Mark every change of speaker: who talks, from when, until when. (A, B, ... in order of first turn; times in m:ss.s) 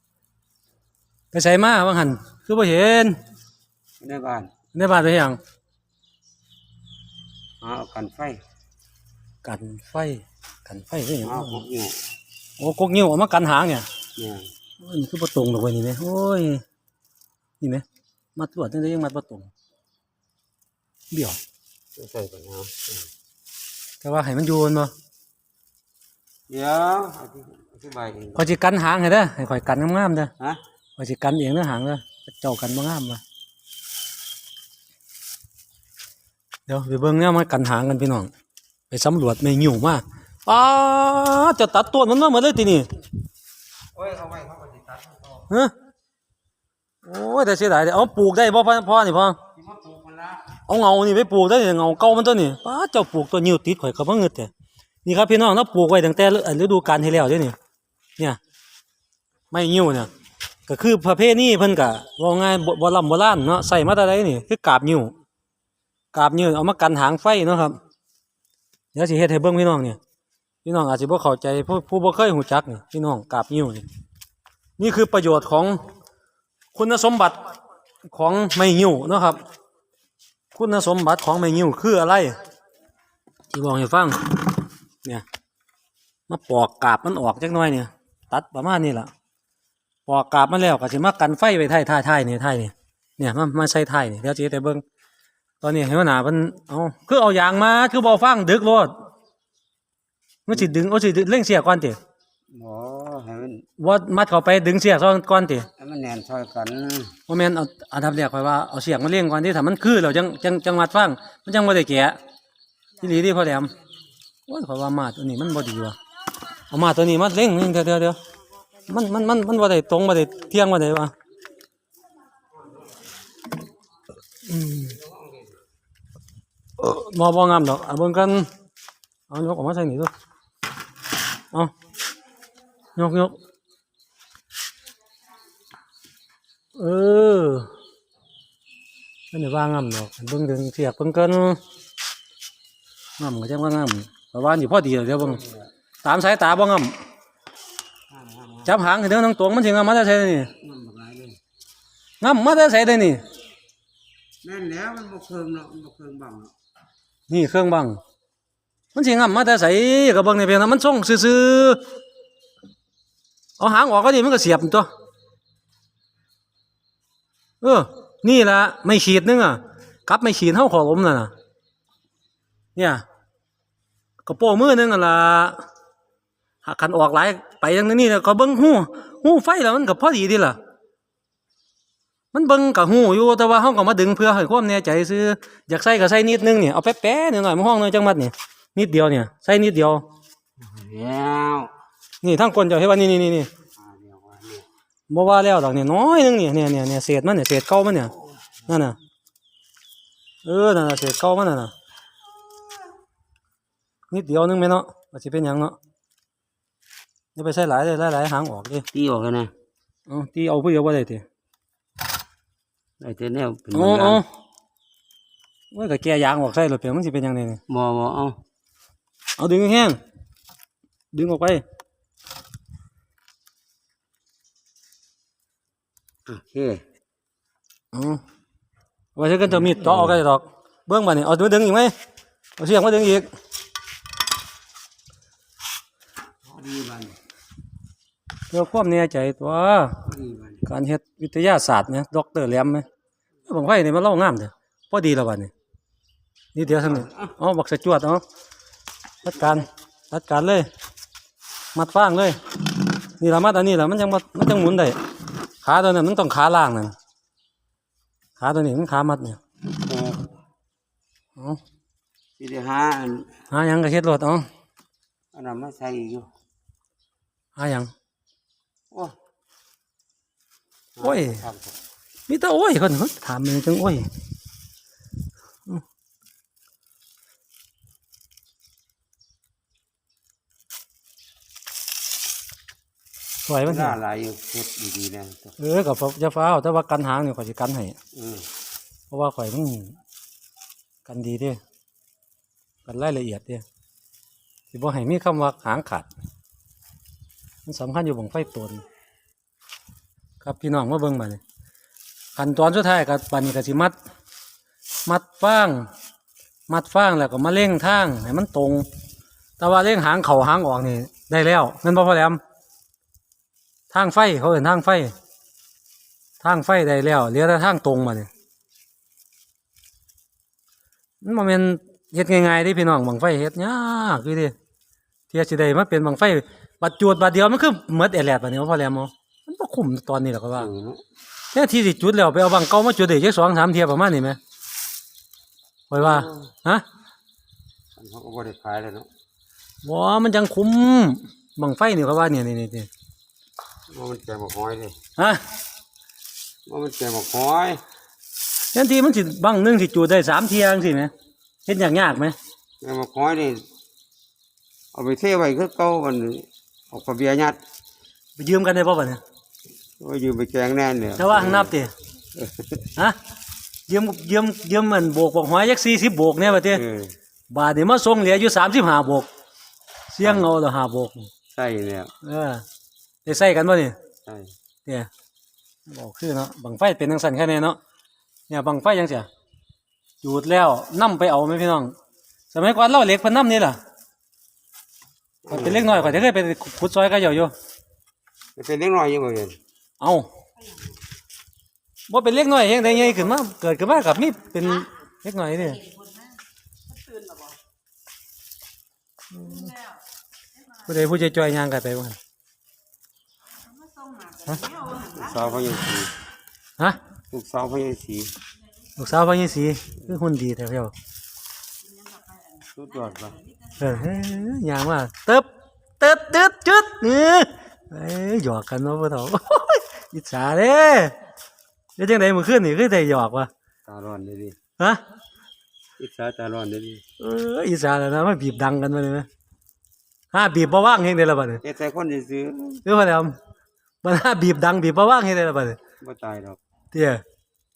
0:01.3-0:03.2 A
0:04.0-0:04.5 B
0:04.7-0:05.4 A
0:07.6-0:08.4 B
0:09.4-0:11.6 A
0:11.2-0:12.0 B
0:12.6-0:13.9 A
0:14.2-0:14.5 B
0:14.8-0:16.6 A
0:18.4-0:19.5 A
0:21.1-0:21.4 A
0:22.0-0:23.1 B
0:24.0-0:24.9 A
0:26.5-0:28.5 B
0:28.4-0:30.3 A
0:31.0-0:33.2 A
0:36.7-0:38.3 A
0:38.9-0:42.9 A
0:43.9-0:45.5 B
0:47.0-0:49.4 A
0:49.6-0:50.5 B
0:50.7-0:54.5 A
0:55.0-0:57.6 A
0:59.5-1:00.1 A
1:00.7-1:05.1 A
1:06.1-1:07.8 A
1:08.9-1:10.0 A
1:10.6-1:13.8 A
1:14.8-1:15.8 A
1:16.8-1:17.4 A
1:18.1-1:19.4 A
1:20.5-1:22.4 A
1:23.5-1:24.4 A
1:26.3-1:29.1 A
1:30.1-1:34.8 A
1:35.6-1:38.9 A
1:40.5-1:42.0 A
1:42.5-1:43.6 B
1:43.8-1:45.7 A
1:45.8-1:47.2 B
1:47.3-1:52.2 A
1:53.0-1:53.7 A
1:54.5-1:56.0 A
1:56.7-1:58.2 A
1:58.9-2:01.1 A
2:04.5-2:05.0 A
2:04.8-2:05.5 B
2:06.8-2:08.5 A
2:09.3-2:10.1 A
2:13.0-2:13.4 A
2:16.8-2:17.7 A
2:19.3-2:21.6 A
2:23.2-2:25.4 A
2:25.2-2:25.7 B
2:26.0-2:26.9 A
2:28.1-2:28.7 B
2:28.6-2:30.5 A
2:30.6-2:31.4 B
2:32.2-2:33.2 A
2:34.4-2:36.5 B
2:37.3-2:38.0 A
2:38.9-2:41.8 A
2:43.6-2:44.9 A
2:47.6-2:51.3 A
2:52.8-2:53.0 A
2:54.2-2:55.6 A
2:56.6-3:00.6 A
3:02.3-3:10.0 A
3:10.6-3:11.7 B
3:12.2-3:13.5 A
3:13.8-3:14.6 B
3:15.1-3:18.1 A
3:18.7-3:19.0 A
3:20.4-3:21.7 A
3:24.1-3:25.8 A
3:27.4-3:28.9 A
3:28.9-3:29.5 B
3:30.1-3:31.2 A
3:33.0-3:34.2 B
3:33.7-3:34.3 A
3:35.7-3:37.6 A
3:37.7-3:38.4 B
3:39.4-3:40.0 A
3:41.1-3:41.6 A
3:46.3-3:46.8 B
3:47.9-3:48.2 A
3:49.2-3:51.9 A
3:49.6-3:50.2 B
3:52.6-3:53.3 A
3:56.5-3:57.2 B
3:58.5-4:00.0 A
4:00.0-4:00.6 B
4:00.6-4:02.9 A
4:03.5-4:05.5 A
4:06.6-4:08.2 A
4:06.7-4:07.3 B
4:09.2-4:10.7 A
4:11.8-4:12.4 A
4:13.0-4:15.0 A
4:15.6-4:16.9 A
4:18.4-4:19.4 A
4:19.7-4:20.3 B
4:22.4-4:23.3 B
4:23.5-4:24.5 A
4:25.3-4:26.3 B
4:27.6-4:27.9 A
4:31.0-4:31.8 B
4:31.0-4:31.4 A
4:32.3-4:34.1 A
4:43.4-4:44.0 A
4:43.6-4:45.5 B
4:45.6-4:48.0 A
4:48.1-4:48.5 B
4:49.1-4:50.0 A
4:51.1-4:51.6 A
4:52.9-4:53.6 A
4:54.7-4:56.1 A
4:57.7-4:58.8 A
5:00.4-5:01.4 A
5:02.4-5:04.0 A
5:05.1-5:05.9 A
5:06.7-5:08.9 A
5:09.6-5:12.4 A
5:13.9-5:15.1 A
5:16.4-5:18.3 A
5:21.2-5:24.5 A
5:25.3-5:30.7 A
5:30.6-5:31.0 B
5:31.5-5:34.4 A
5:35.9-5:36.8 A
5:35.9-5:36.5 B
5:38.0-5:39.1 B
5:39.8-5:42.9 A
5:43.9-5:45.0 B
5:45.2-5:45.4 A
5:46.7-5:47.8 B
5:48.7-5:51.1 A
5:51.7-5:52.4 A
5:52.8-5:53.6 B
5:54.9-5:57.6 B
5:58.4-5:59.2 A
6:00.0-6:01.7 B
6:01.2-6:01.9 A
6:02.4-6:02.9 B
6:03.9-6:06.8 A
6:06.7-6:07.2 B
6:07.5-6:09.3 A
6:10.1-6:11.3 A
6:11.5-6:12.1 B
6:12.2-6:12.6 A
6:13.2-6:14.0 A
6:14.3-6:14.5 B
6:15.9-6:17.8 A
6:18.5-6:19.3 A
6:20.2-6:22.0 A
6:22.5-6:23.8 A
6:25.4-6:26.2 B
6:25.5-6:27.5 A
6:28.6-6:29.6 B
6:30.0-6:30.3 A
6:32.1-6:35.9 A
6:39.3-6:39.8 A
6:40.8-6:42.2 A
6:44.9-6:46.1 B
6:47.3-6:48.3 B
6:49.0-6:50.9 A
6:52.7-6:53.4 B
6:53.8-6:55.5 A
6:56.0-7:01.2 A
7:02.0-7:03.5 A
7:03.9-7:04.6 B
7:06.0-7:07.0 B
7:07.2-7:09.3 A
7:10.3-7:11.6 A
7:11.6-7:12.8 B
7:12.8-7:13.4 A
7:14.0-7:15.8 A
7:16.0-7:16.6 B
7:16.9-7:17.2 A